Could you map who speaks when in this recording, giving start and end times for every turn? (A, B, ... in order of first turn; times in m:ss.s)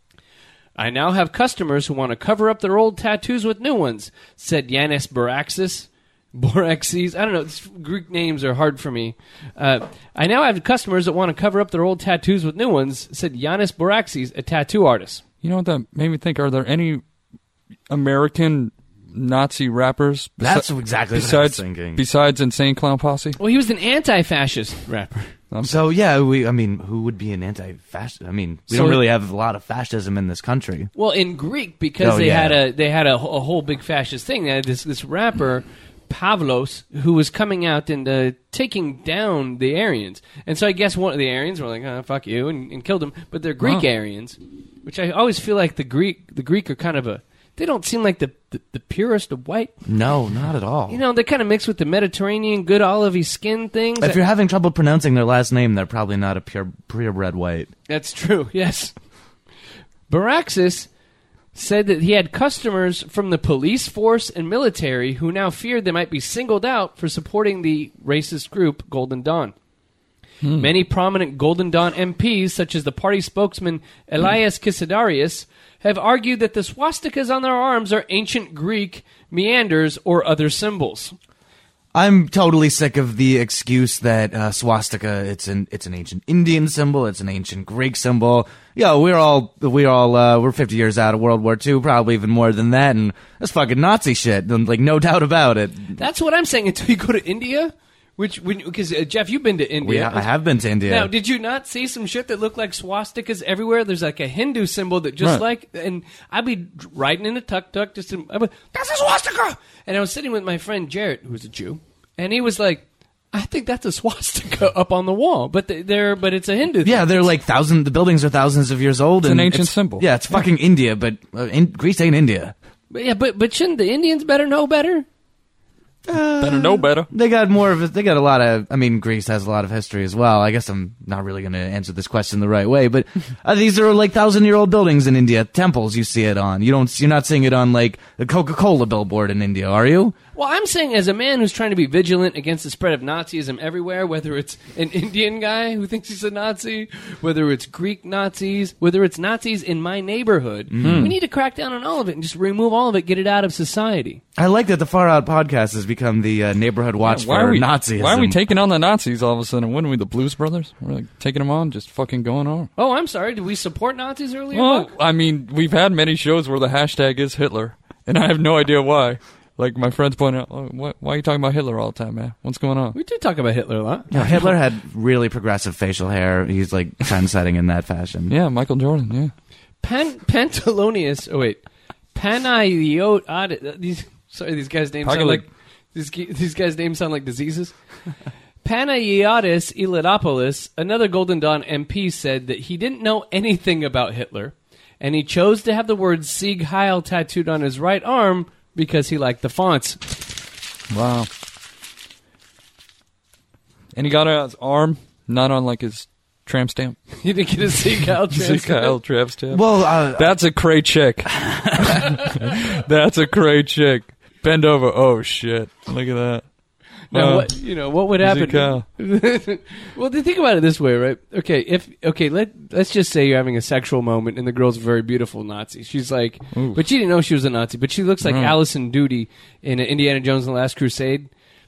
0:00.8-0:15.2 A
0:15.4-0:17.0 B
0:17.9-0:23.4 B
0:20.4-0:22.0 C
0:23.4-0:25.3 A
0:25.5-0:25.8 B
0:25.6-0:30.9 C
0:28.7-0:29.0 A
0:31.0-0:49.8 A
0:32.0-0:32.6 C
0:49.9-0:51.0 C
0:50.9-0:54.2 A
0:54.0-0:57.7 C
0:57.9-0:59.0 A
1:00.1-1:00.9 A
1:01.5-1:09.6 A
1:10.4-1:10.7 B
1:10.6-1:21.2 A
1:21.9-1:36.0 C
1:36.0-1:40.3 A
1:39.8-1:41.1 C
1:40.8-1:57.3 A
1:56.8-2:02.5 C
1:59.2-2:00.1 B
2:02.9-2:05.1 A
2:06.1-2:20.2 C
2:06.4-2:07.1 B
2:20.4-2:34.2 A
2:30.7-2:31.1 C
2:30.8-2:31.2 B
2:34.4-2:38.4 C
2:37.0-2:42.7 B
2:42.8-2:44.9 A
2:44.5-2:53.0 B
2:52.9-2:54.6 A
2:54.1-2:58.3 C
2:58.3-2:59.3 B
2:59.8-3:01.6 A
3:02.1-3:07.8 A
3:05.0-3:05.4 B
3:08.6-3:20.0 A
3:20.9-3:21.3 B
3:23.9-3:27.0 B
3:27.2-3:29.0 A
3:28.3-3:36.5 B
3:29.5-3:30.4 C
3:31.4-3:31.9 C
3:37.1-3:51.3 A
3:37.1-3:38.8 B
3:46.5-3:46.8 B
3:48.2-3:48.6 B